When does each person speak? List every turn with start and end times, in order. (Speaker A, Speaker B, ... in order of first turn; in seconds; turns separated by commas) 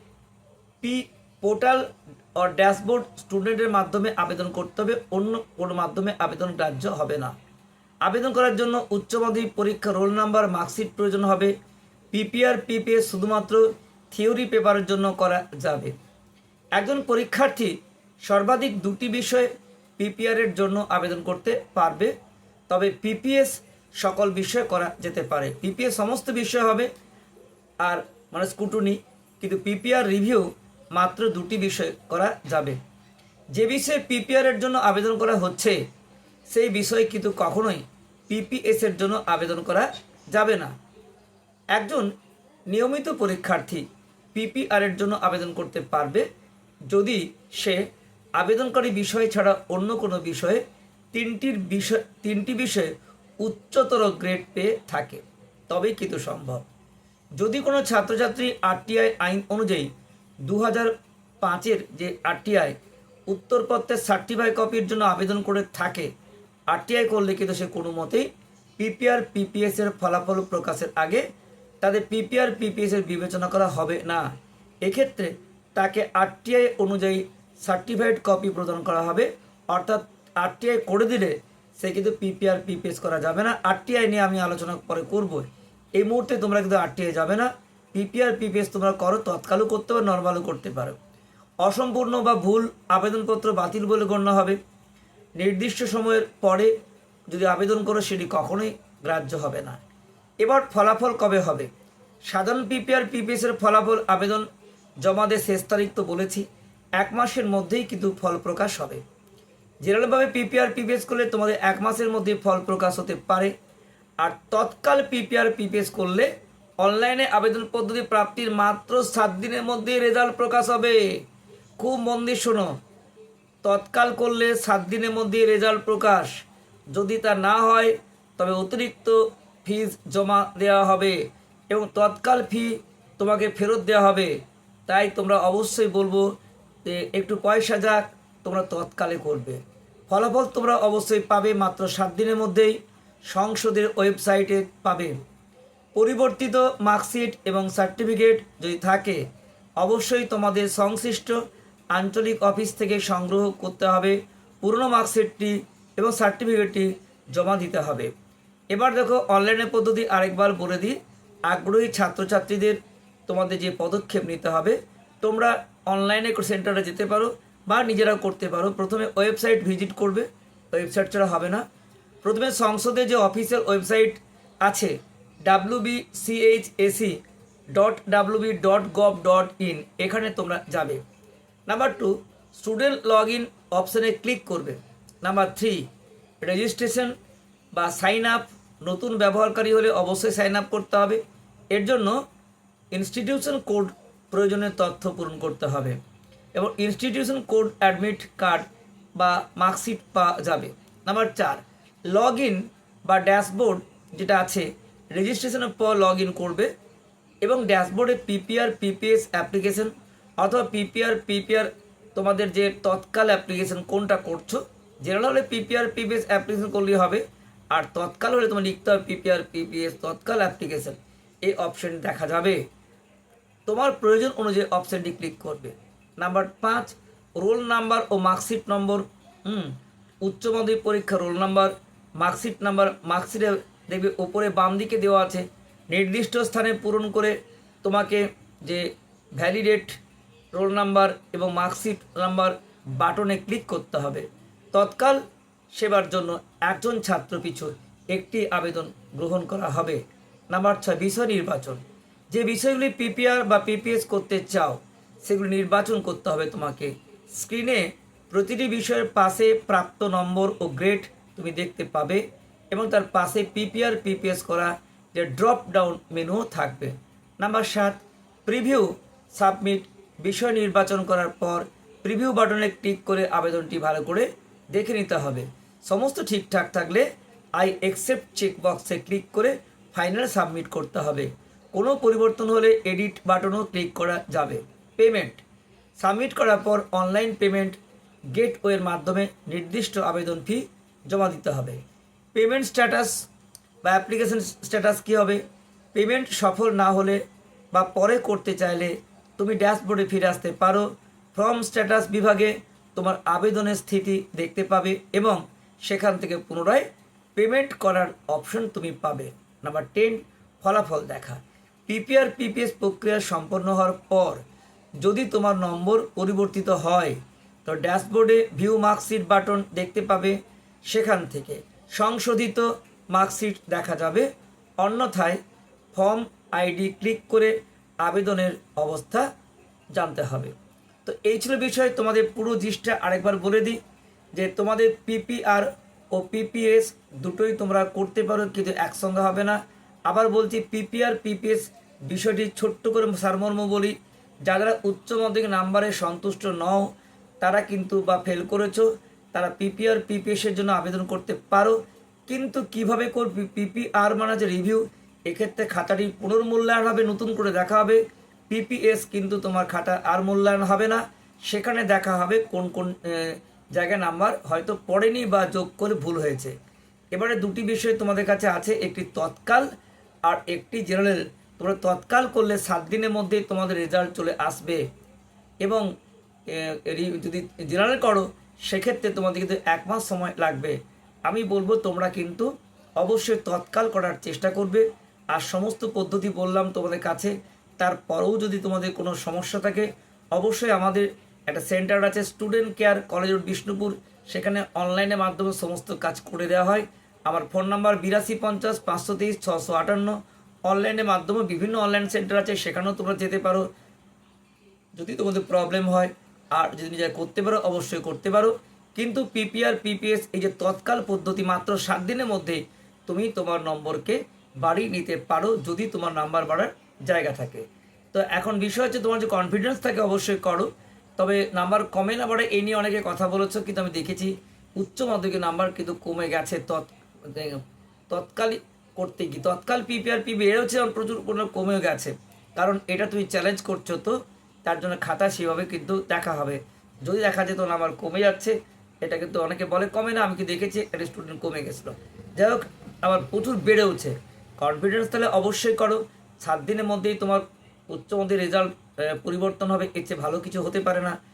Speaker A: 0.8-1.9, Speaker A: 2.4-7.3, Speaker A: 8.0-11.6, Speaker A: 12.1-15.9, Speaker A: 16.8-22.1, Speaker A: 22.7-26.9, Speaker A: 27.8-32.8, Speaker A: 33.5-35.8, Speaker A: 36.5-40.7, Speaker A: 41.7-42.1, Speaker A: 42.7-46.2, Speaker A: 46.9-47.8, Speaker A: 48.4-56.7, Speaker A: 57.4-59.9, Speaker A: 60.5-60.9, Speaker A: 61.4-62.8, Speaker A: 63.3-66.1, Speaker A: 66.7-71.2, Speaker A: 71.8-74.3, Speaker A: 74.8-91.0, Speaker A: 91.6-94.6, Speaker A: 95.4-96.7, Speaker A: 97.3-99.8, Speaker A: 100.4-101.7, Speaker A: 102.3-104.5, Speaker A: 105.0-106.5, Speaker A: 107.0-109.0, Speaker A: 109.8-113.5, Speaker A: 114.2-116.3, Speaker A: 116.8-121.2, Speaker A: 121.8-122.8, Speaker A: 123.6-126.3, Speaker A: 126.9-134.3, Speaker A: 134.9-136.2, Speaker A: 136.9-142.8, Speaker A: 143.3-145.2, Speaker A: 145.9-149.2, Speaker A: 149.8-151.4, Speaker A: 151.9-158.1, Speaker A: 158.7-171.6, Speaker A: 172.2-177.2, Speaker A: 177.7-181.0, Speaker A: 181.7-185.8, Speaker A: 186.4-187.2, Speaker A: 187.7-192.2, Speaker A: 192.9-196.0, Speaker A: 196.5-198.7, Speaker A: 199.2-206.7, Speaker A: 207.4-222.6, Speaker A: 223.7-240.0, Speaker A: 240.5-245.2, Speaker A: 245.8-277.1, Speaker A: 277.6-285.4, Speaker A: 286.0-287.8, Speaker A: 288.3-291.8, Speaker A: 292.3-293.3, Speaker A: 293.8-295.4, Speaker A: 295.9-314.4, Speaker A: 315.0-324.3, Speaker A: 324.8-325.4, Speaker A: 325.9-329.3, Speaker A: 329.9-330.5, Speaker A: 331.1-333.8, Speaker A: 334.3-346.9, Speaker A: 347.4-366.6, Speaker A: 367.1-369.7, Speaker A: 370.2-374.8, Speaker A: 376.5-380.8, Speaker A: 381.3-403.7, Speaker A: 404.9-451.2